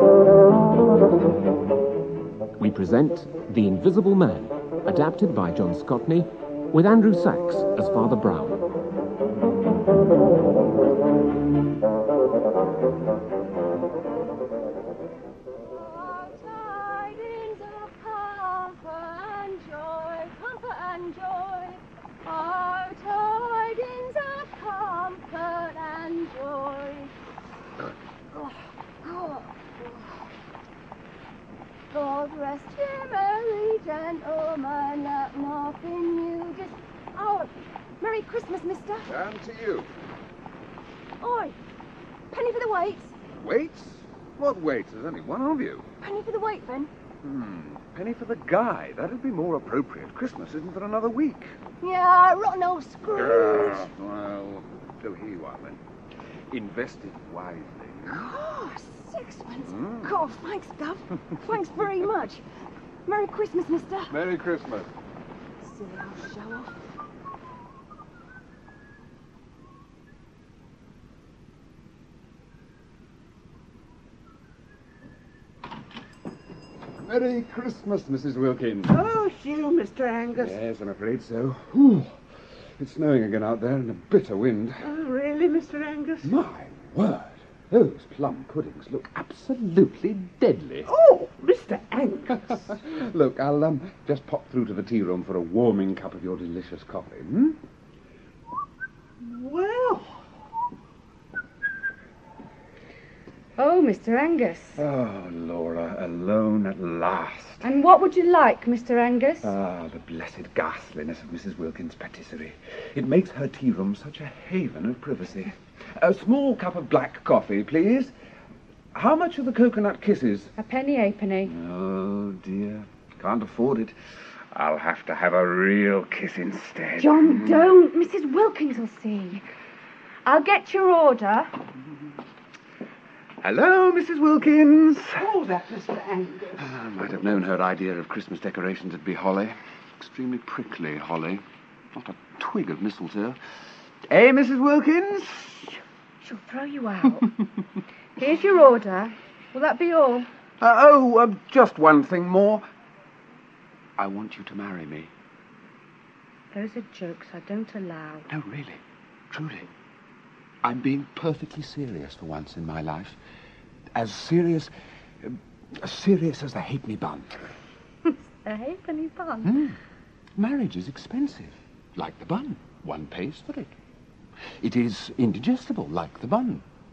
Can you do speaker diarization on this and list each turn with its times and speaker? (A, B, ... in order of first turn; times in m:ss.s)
0:02.6-0:08.6 A
0:15.6-0:27.1 B
0:28.3-0:30.3 B
0:31.9-0:39.1 B
0:39.0-0:39.9 C
0:41.2-0:41.6 B
0:42.3-0:43.1 B
0:43.3-0:45.9 C
0:46.0-0:46.9 B
0:47.2-0:51.6 C
0:51.8-0:53.8 B
0:53.1-0:55.8 C
0:56.5-0:58.2 C
0:58.1-1:02.4 B
0:59.6-1:00.1 C
1:03.0-1:04.2 B
1:04.1-1:04.9 C
1:05.6-1:06.7 D
1:05.9-1:06.6 B
1:17.0-1:19.0 C
1:18.9-1:20.6 E
1:20.4-1:22.2 C
1:22.8-1:24.8 C
1:24.8-1:26.3 E
1:26.2-1:30.9 C
1:30.8-1:32.7 E
1:32.5-1:37.6 C
1:39.2-1:40.1 E
1:43.6-1:44.8 D
1:44.8-1:47.7 C
1:47.6-1:49.5 D
1:49.4-1:58.1 C
1:58.9-2:00.5 C
2:00.6-2:01.5 D
2:01.5-2:03.9 C
2:04.5-2:07.6 C
2:07.0-2:09.5 D
2:10.2-2:11.5 D
2:13.4-2:15.3 C
2:15.2-2:16.6 E
2:16.6-2:23.4 C
2:24.1-2:25.8 C
2:26.2-2:27.3 D
2:28.2-2:30.3 D
2:30.6-2:32.6 C
2:34.0-2:35.1 C
2:36.5-2:38.3 D
2:38.3-2:39.7 C
2:40.6-2:43.2 C
2:43.9-2:44.7 C
2:45.2-2:47.4 C
2:48.0-2:49.6 D
2:49.4-2:49.8 C
2:50.4-2:53.7 C
2:54.6-2:56.6 C